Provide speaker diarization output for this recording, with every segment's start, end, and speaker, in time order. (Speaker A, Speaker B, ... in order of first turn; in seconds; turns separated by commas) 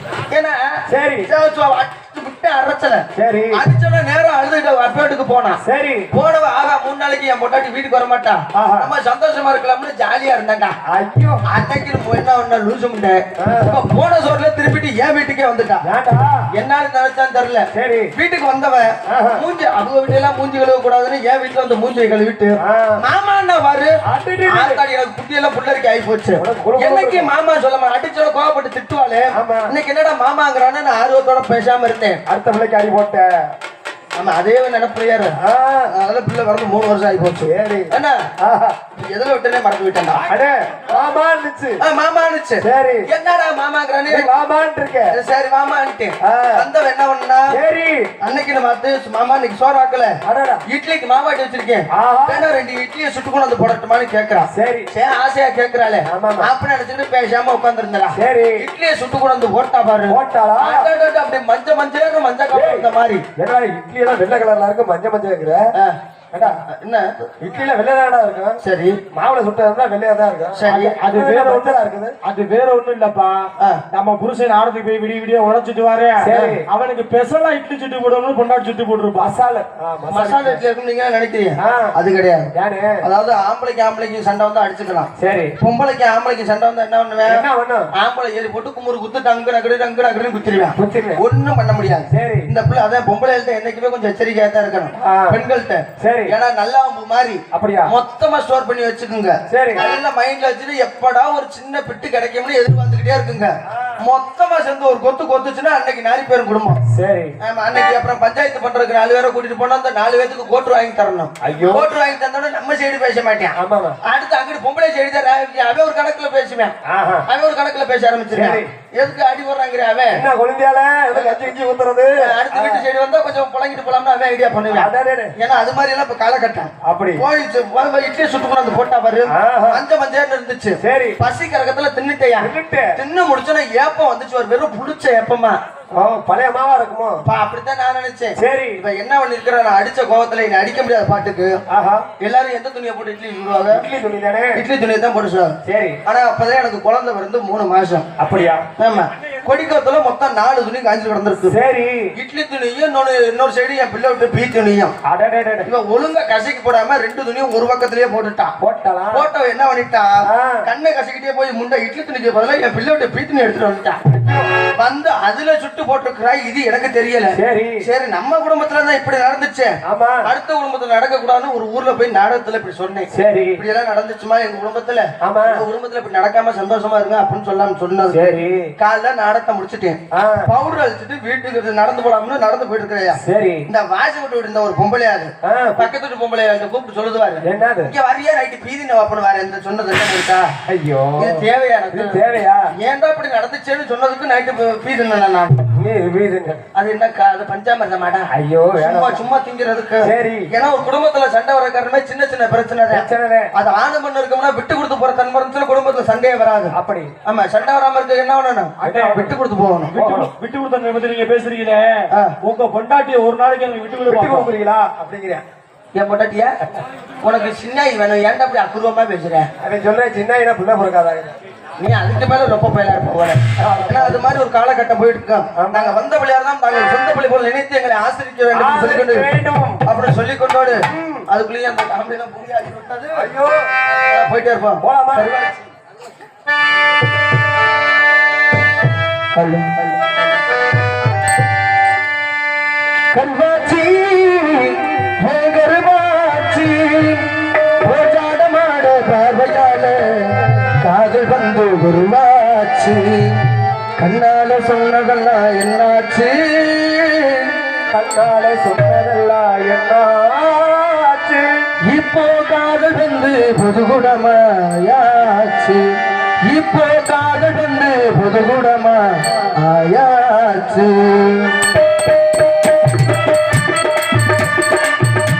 Speaker A: 0.3-5.6, Speaker B: 0.9-1.3, Speaker B: 3.1-3.6, Speaker B: 5.6-6.1, Speaker A: 6.1-10.7, Speaker B: 8.5-8.9, Speaker B: 10.9-11.4, Speaker A: 11.4-15.8, Speaker B: 13.4-13.8, Speaker B: 15.8-16.4, Speaker A: 16.5-23.9, Speaker B: 17.7-18.1, Speaker B: 19.1-19.4, Speaker B: 22.6-23.0, Speaker B: 24.1-24.8, Speaker A: 24.5-32.2, Speaker B: 26.4-27.3, Speaker B: 29.3-29.7, Speaker B: 32.3-33.4, Speaker A: 34.2-35.4, Speaker B: 35.4-35.9, Speaker A: 35.9-38.2, Speaker B: 37.4-38.8, Speaker A: 38.9-40.3, Speaker B: 40.2-41.8, Speaker A: 41.8-44.3, Speaker B: 42.6-43.0, Speaker B: 44.1-45.1, Speaker A: 45.1-47.5, Speaker B: 46.2-46.6, Speaker B: 47.5-48.1, Speaker A: 48.2-50.1, Speaker B: 50.2-50.6, Speaker A: 50.7-63.2, Speaker B: 51.9-52.5, Speaker B: 54.5-54.9, Speaker B: 56.1-56.5, Speaker B: 58.1-58.6, Speaker B: 60.1-60.9, Speaker B: 62.5-65.6, Speaker A: 65.7-67.3, Speaker B: 66.3-66.6, Speaker B: 67.4-68.6, Speaker A: 68.6-69.0, Speaker B: 69.1-72.1, Speaker A: 70.5-71.0, Speaker C: 70.6-79.4, Speaker B: 76.2-76.7, Speaker B: 79.2-80.6, Speaker A: 80.1-87.4, Speaker B: 81.6-81.9, Speaker B: 82.5-83.0, Speaker B: 85.2-85.5, Speaker B: 87.2-87.9, Speaker A: 88.0-106.8, Speaker B: 90.8-91.2, Speaker B: 92.1-92.5, Speaker B: 95.0-95.4, Speaker B: 96.0-96.3, Speaker B: 97.5-97.9, Speaker B: 99.5-99.8, Speaker B: 106.9-107.3, Speaker A: 107.4-116.7, Speaker B: 111.4-111.9, Speaker B: 113.6-114.0, Speaker B: 116.9-117.2, Speaker A: 117.2-120.2, Speaker B: 118.3-118.7, Speaker B: 120.1-122.8, Speaker A: 121.1-121.5, Speaker A: 122.2-135.6, Speaker B: 124.7-125.3, Speaker B: 126.8-127.2, Speaker B: 129.3-129.8, Speaker B: 130.8-131.2, Speaker B: 132.4-133.0, Speaker B: 135.9-137.2, Speaker A: 137.2-141.6, Speaker B: 138.4-138.8, Speaker B: 141.7-142.1, Speaker A: 142.2-143.8, Speaker B: 143.7-144.6, Speaker A: 144.5-145.5, Speaker B: 145.6-146.0, Speaker A: 146.1-148.1, Speaker B: 148.2-148.6, Speaker A: 148.8-151.6, Speaker B: 151.5-152.1, Speaker A: 152.2-154.9, Speaker B: 155.0-155.7, Speaker A: 155.6-158.5, Speaker B: 158.6-159.3, Speaker A: 159.1-164.0, Speaker B: 160.3-160.6, Speaker B: 164.1-164.5, Speaker A: 164.8-190.5, Speaker B: 167.3-167.8, Speaker B: 169.9-170.2, Speaker B: 173.1-173.6, Speaker B: 175.2-175.6, Speaker B: 178.1-178.7, Speaker B: 180.1-180.5, Speaker B: 183.2-183.7, Speaker B: 185.4-185.9, Speaker B: 187.4-187.9, Speaker B: 190.7-192.7, Speaker A: 191.2-192.2, Speaker A: 192.8-195.5, Speaker B: 195.8-196.6, Speaker A: 196.7-206.7, Speaker B: 198.3-199.2, Speaker B: 200.0-200.5, Speaker B: 202.9-203.5, Speaker B: 206.7-207.1, Speaker A: 207.2-209.9, Speaker B: 208.8-209.4, Speaker C: 208.8-209.2, Speaker C: 209.9-214.5, Speaker B: 209.9-210.3, Speaker B: 214.1-215.4, Speaker A: 215.9-216.5, Speaker A: 217.2-219.5, Speaker B: 219.6-221.3, Speaker A: 221.8-229.3, Speaker B: 223.6-224.3, Speaker B: 225.6-226.0, Speaker B: 228.5-229.8, Speaker A: 229.8-233.3, Speaker B: 230.8-231.2, Speaker B: 233.2-233.7, Speaker A: 233.9-235.6, Speaker B: 234.8-235.3, Speaker A: 239.3-239.8, Speaker A: 243.1-253.3, Speaker A: 254.0-257.5, Speaker B: 257.9-261.5, Speaker A: 261.9-271.6